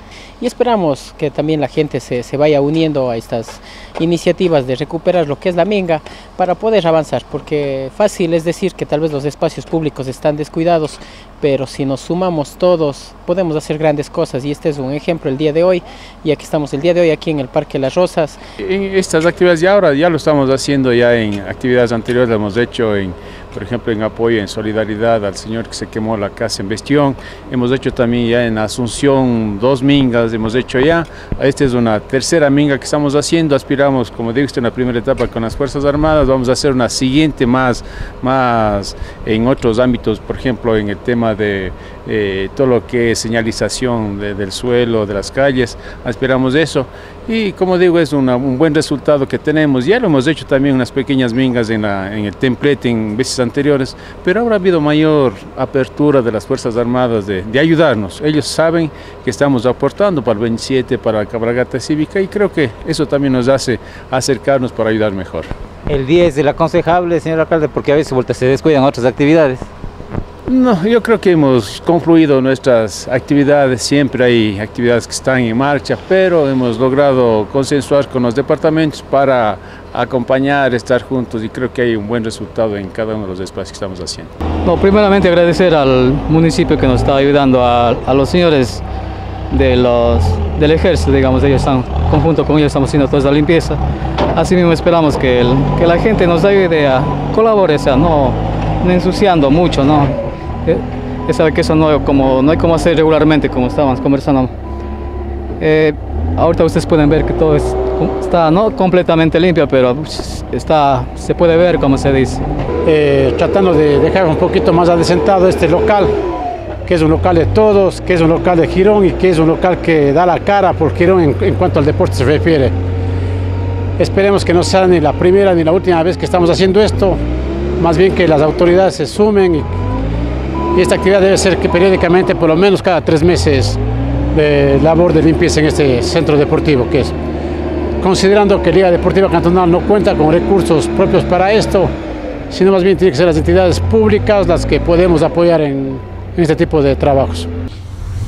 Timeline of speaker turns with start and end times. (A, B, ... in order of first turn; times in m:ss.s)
0:00.4-0:18.4 A
0:18.6-1:05.5 B
1:05.9-1:09.6 C
1:10.4-1:24.3 B
1:24.6-1:28.8 D
1:29.5-1:33.8 D
1:34.3-1:44.5 D
1:45.6-1:52.4 D
1:52.8-1:56.1 E
1:56.8-2:02.7 E
2:04.0-2:07.2 E
2:07.8-2:09.7 E
2:10.7-2:13.8 E
2:14.3-2:17.1 E
2:18.0-2:21.9 E
2:22.5-2:27.5 E